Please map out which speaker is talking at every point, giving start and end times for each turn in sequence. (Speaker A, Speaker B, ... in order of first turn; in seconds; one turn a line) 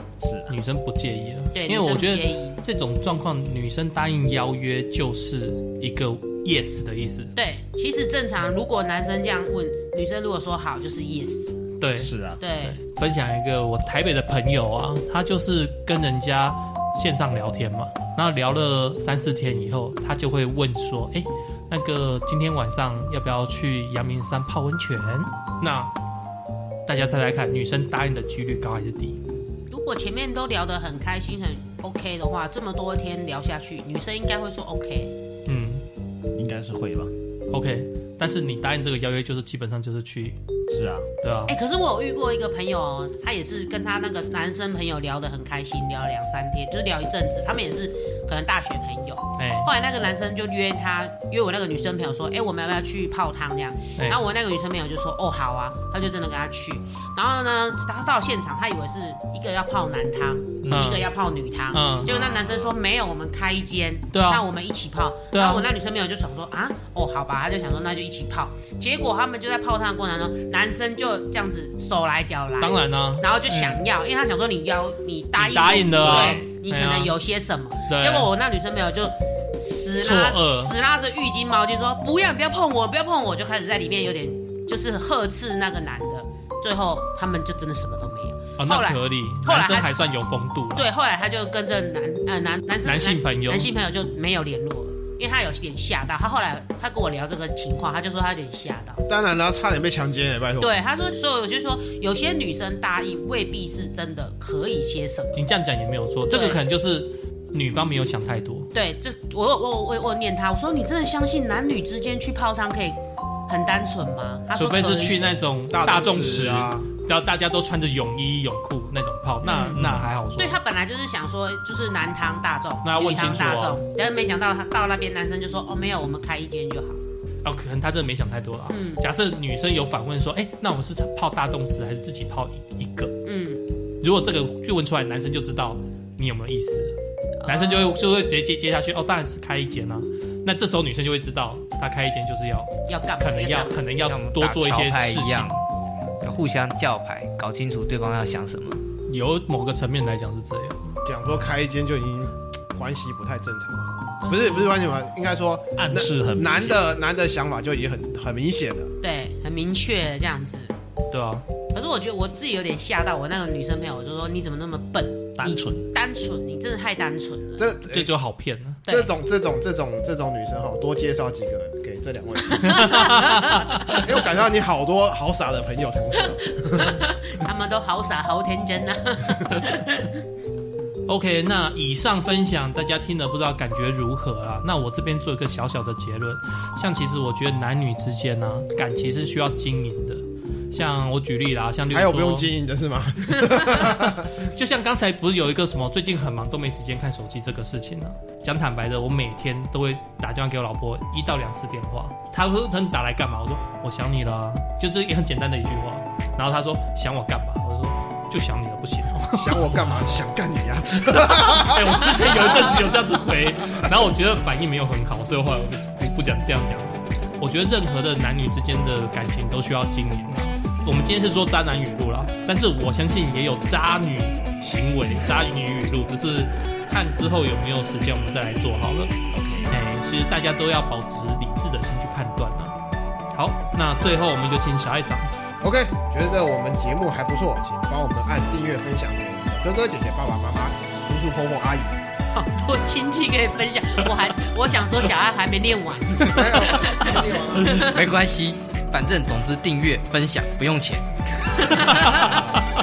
Speaker A: 0.2-0.5
Speaker B: 0.5-7.3
Speaker C: 1.5-2.6
Speaker C: 7.4-11.6
Speaker B: 11.8-25.9
Speaker A: 12.0-12.4
Speaker C: 12.4-12.8
Speaker B: 26.9-29.2
Speaker C: 29.7-35.1
Speaker B: 35.5-35.9
Speaker A: 36.4-37.1
Speaker B: 37.5-40.4
Speaker A: 40.7-41.1
Speaker B: 41.2-41.5
Speaker C: 41.5-89.9
Speaker B: 49.4-49.7
Speaker A: 60.6-60.9
Speaker B: 60.7-61.1
Speaker B: 61.7-62.2
Speaker A: 62.1-62.7
Speaker B: 64.1-64.5
Speaker B: 65.3-65.7
Speaker B: 72.6-73.8
Speaker B: 75.4-77.2
Speaker A: 76.0-76.5
Speaker B: 77.9-78.3
Speaker B: 80.0-80.7
Speaker B: 88.6-90.9
Speaker C: 90.8-99.0
Speaker B: 92.8-93.7
Speaker D: 99.1-100.7
Speaker C: 100.6-105.4
Speaker B: 105.4-108.7
Speaker C: 106.3-106.6
Speaker C: 108.7-115.3
Speaker B: 114.5-120.6
Speaker D: 115.7-116.9
Speaker C: 119.4-119.8
Speaker A: 119.8-120.1
Speaker C: 120.4-127.0
Speaker B: 122.8-123.8
Speaker B: 127.4-133.2
Speaker C: 128.7-129.1
Speaker C: 133.2-133.6
Speaker B: 134.0-145.6
Speaker C: 137.4-138.0
Speaker C: 142.9-143.8
Speaker E: 144.0-145.6
Speaker E: 146.2-148.8
Speaker B: 149.1-151.0
Speaker D: 151.1-158.9
Speaker C: 154.3-154.7
Speaker A: 155.8-156.8
Speaker C: 159.0-160.8
Speaker B: 161.1-161.4
Speaker C: 161.7-167.6
Speaker A: 165.4-165.9
Speaker D: 167.6-168.1
Speaker B: 167.9-168.8
Speaker D: 168.9-172.8
Speaker C: 172.5-174.0
Speaker B: 172.6-174.0
Speaker D: 173.9-177.0
Speaker C: 176.2-180.1
Speaker B: 181.1-192.5
Speaker D: 191.9-194.3
Speaker B: 193.5-210.2
Speaker D: 209.3-212.8
Speaker B: 211.0-229.1
Speaker A: 229.3-229.8
Speaker B: 229.7-232.8
Speaker B: 233.3-235.3
Speaker D: 235.6-242.0
Speaker C: 242.3-247.9
Speaker D: 246.2-248.0
Speaker E: 247.7-251.1
Speaker C: 251.6-252.4
Speaker A: 252.2-252.6